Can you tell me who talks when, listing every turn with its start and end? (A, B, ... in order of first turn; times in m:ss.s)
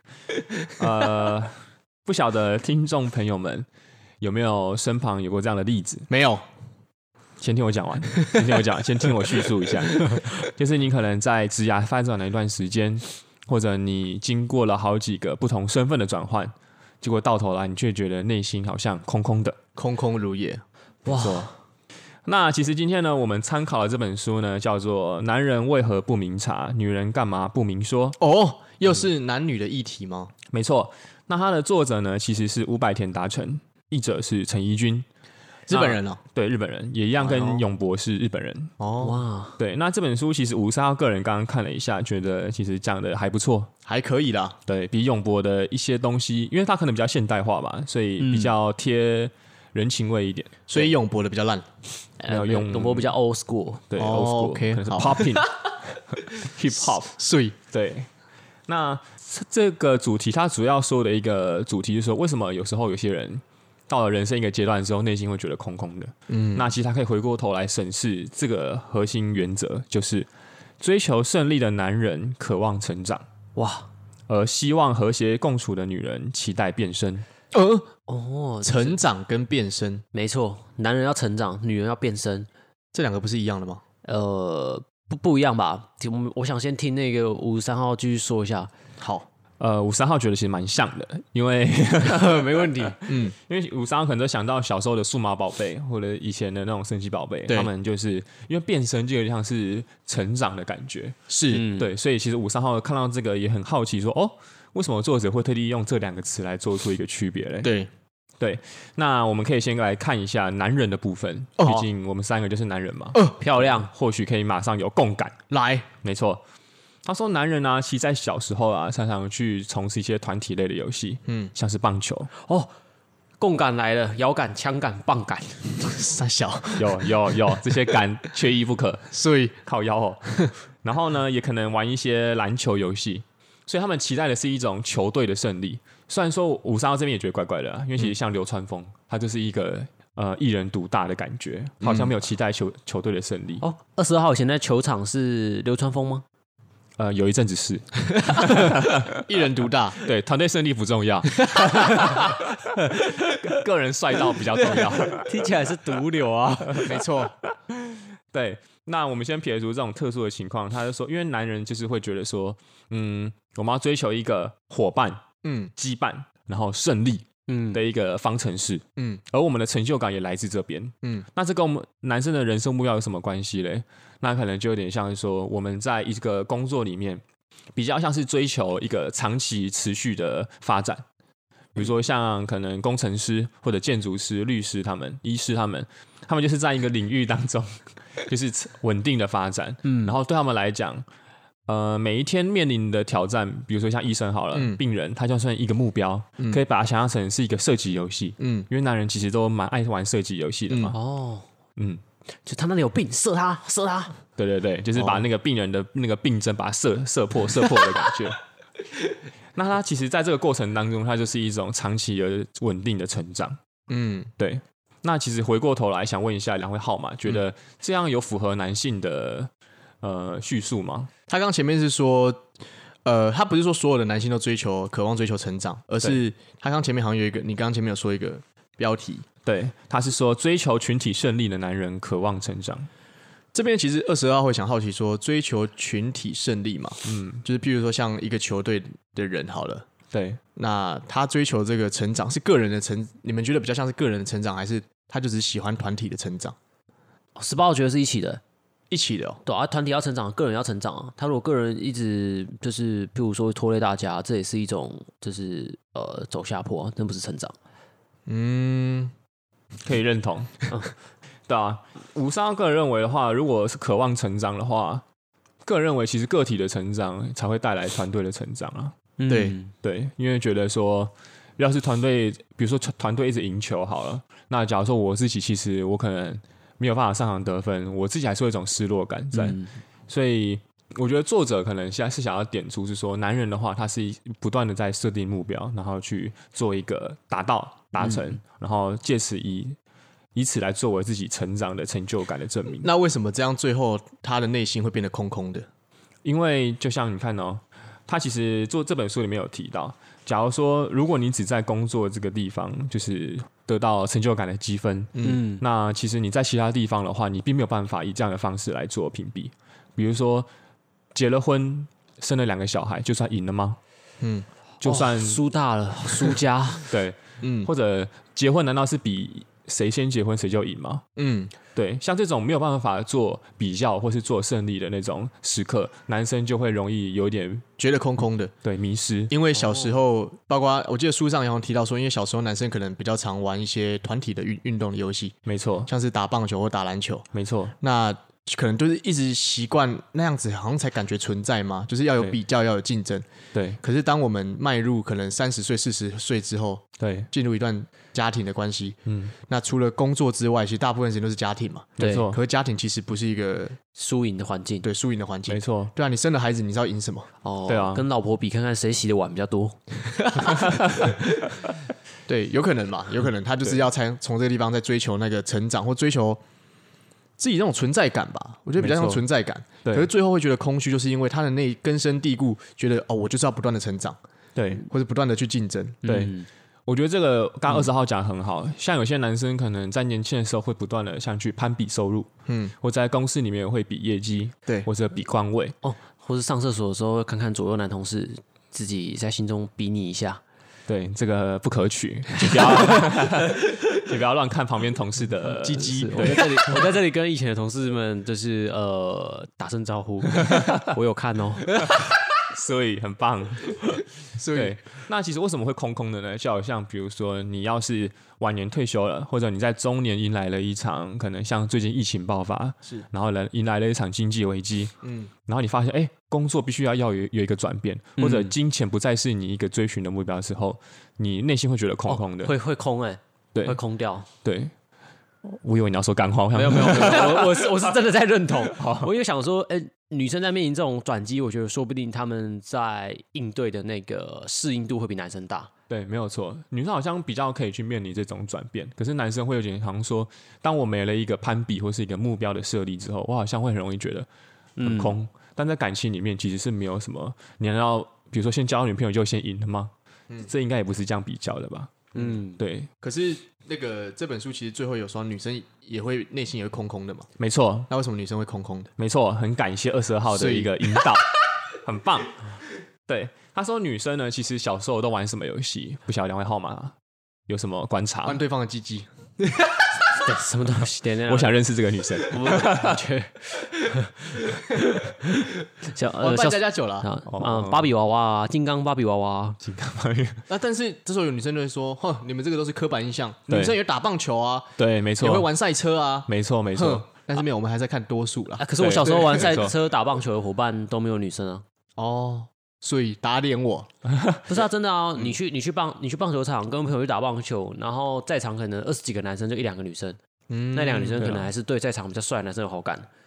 0:00.8-0:03.6 A
0:04.2-0:06.1 A
0:06.1-0:06.4 B
0:07.4-0:19.6 A
0:19.8-0:20.6 B
0:21.0-0:21.6 C
0:21.1-0:21.5 A
0:22.2-0:28.2 A
0:28.2-0:30.3 B
0:30.5-0:35.0 A
0:35.7-0:36.2 B
0:35.7-0:38.7 A
0:37.2-0:37.6 B
0:38.8-0:39.2 B
0:39.0-0:39.6 C
0:39.6-0:43.7 A
0:43.8-0:44.6 B
0:44.6-0:50.9 A
0:48.2-0:48.5 C
0:50.7-0:51.6 B
0:52.2-0:53.8 C
0:52.3-0:53.1 A
0:53.9-0:57.2 A
0:54.0-0:55.4 B
0:57.0-0:57.6 B
0:57.7-0:58.1 A
0:58.7-1:10.3 A
1:06.3-1:06.7 B
1:10.8-1:13.2 A
1:13.6-1:13.9 C
1:14.3-1:17.2 A
1:17.5-1:17.9 B
1:18.1-1:19.0 C
1:18.6-1:20.0 B
1:20.1-1:22.5 C
1:22.9-1:23.8 B
1:24.0-1:28.7 C
1:29.0-1:29.2 B
1:29.6-1:47.7 A
1:32.0-1:33.0 C
1:33.0-1:33.3 B
1:41.3-1:41.7 B
1:41.5-1:41.9 C
1:47.6-1:47.9 B
1:48.4-1:55.4 A
1:51.6-1:51.9 B
1:53.4-1:53.9 C
1:55.5-1:55.9 B
1:56.0-1:56.4 A
1:57.0-2:02.3 A
2:01.2-2:01.5 B
2:02.4-2:02.7 C
2:03.4-2:06.0 C
2:05.9-2:08.0 B
2:06.8-2:09.1 A
2:09.1-2:09.6 B
2:09.6-2:10.3 A
2:10.8-2:23.6 A
2:21.8-2:22.1 B
2:23.6-2:26.2 C
2:27.0-2:29.2 A
2:29.1-2:30.0 B
2:30.0-2:35.6 A
2:34.5-2:37.0 C
2:36.8-2:37.3 B
2:37.7-2:45.2 A
2:45.4-2:45.7 B
2:45.8-2:57.2 A
2:47.5-2:47.8 C
2:49.0-2:49.2 B
2:57.8-3:01.0 A
3:01.7-3:11.0 A
3:09.8-3:10.2 C
3:11.7-3:21.0 A
3:14.5-3:14.8 B
3:18.4-3:18.7 B
3:20.8-3:21.4 C
3:21.8-3:22.0 A
3:22.4-3:24.2 C
3:24.4-3:28.4 A
3:24.9-3:25.2 B
3:29.5-3:33.6 A
3:33.9-3:34.3 B
3:34.4-3:39.5 A
3:40.0-3:41.1 A
3:41.3-3:42.4 B
3:43.0-3:49.2 B
3:49.4-3:52.9 A
3:53.5-3:59.8 B
3:57.0-3:57.4 A
4:00.1-4:00.4 A
4:00.6-4:06.5 B
4:07.4-4:08.4 C
4:08.9-4:09.4 B
4:09.4-4:17.5 C
4:18.3-4:19.1 B
4:19.8-4:20.6 A
4:21.5-4:25.0 A
4:25.6-4:29.0 A
4:29.2-4:29.7 C
4:29.3-4:29.6 B
4:29.8-4:49.8 A
4:39.3-4:39.8 C
4:48.0-4:48.4 C
4:50.3-4:52.9 A
4:52.8-4:55.6 B
4:56.2-5:10.5 A
5:05.1-5:05.4 B
5:05.2-5:05.6 C
5:11.1-5:13.8 A
5:14.2-5:14.5 B
5:14.8-5:15.4 A
5:14.8-5:17.0 C
5:16.9-5:21.0 A
5:17.4-5:17.7 B
5:21.2-5:21.5 B
5:21.7-5:27.7 A
5:27.8-5:28.5 B
5:28.6-5:29.3 A
5:29.3-5:35.4 B
5:29.5-5:30.0 C
5:35.4-5:35.9 A
5:35.9-5:37.3 B
5:37.3-5:37.7 A
5:37.8-5:43.2 B
5:43.5-5:43.8 A
5:43.8-5:53.8 B
5:47.0-5:47.3 A
5:49.0-5:49.3 A
5:52.0-5:52.3 C
5:52.0-5:52.4 A
5:53.9-5:54.9 C
5:54.8-5:57.3 B
5:55.5-5:55.9 A
5:57.4-5:59.8 C
5:57.7-5:58.0 A
6:02.3-6:06.4 B
6:07.4-6:14.2 B
6:08.8-6:09.2 A
6:09.8-6:10.1 A
6:14.6-6:14.8 A
6:14.7-6:16.0 B
6:16.0-6:16.5 C
6:16.0-6:22.3 A
6:22.4-6:22.7 B
6:22.8-6:25.7 A
6:25.8-6:30.4 C
6:30.9-6:36.9 A
6:32.5-6:33.1 C
6:35.6-6:36.6 B
6:35.6-6:42.1 C
6:42.3-6:54.9 A
6:44.3-6:44.8 B
6:55.0-6:55.3 B
6:55.4-7:02.5 A
6:58.2-6:58.5 C
7:02.1-7:04.3 C
7:04.4-7:04.7 A
7:05.4-7:07.5 A
7:06.5-7:15.7 C
7:08.6-7:09.1 A
7:15.9-7:24.3 A
7:24.8-7:25.2 C
7:24.8-7:32.0 A
7:32.1-7:32.6 C
7:32.6-7:32.9 A
7:33.0-7:37.3 B
7:37.4-7:37.9 A
7:37.9-7:38.9 B
7:39.0-7:46.9 A
7:40.3-7:40.8 B
7:47.5-7:48.4 A
7:48.2-7:49.8 B
7:50.1-7:51.6 C
7:51.3-7:53.0 A
7:52.2-7:59.6 C
7:56.2-7:57.1 B
7:57.2-7:57.9 A
7:59.6-8:00.4 A
8:00.5-8:09.6 B
8:03.5-8:03.8 A
8:04.8-8:05.5 A
8:06.3-8:07.0 A
8:08.6-8:11.6 C
8:08.8-8:09.7 A
8:12.0-8:13.9 B
8:14.5-8:20.2 C
8:20.5-8:21.3 B
8:20.7-8:23.1 C
8:21.2-8:21.5 A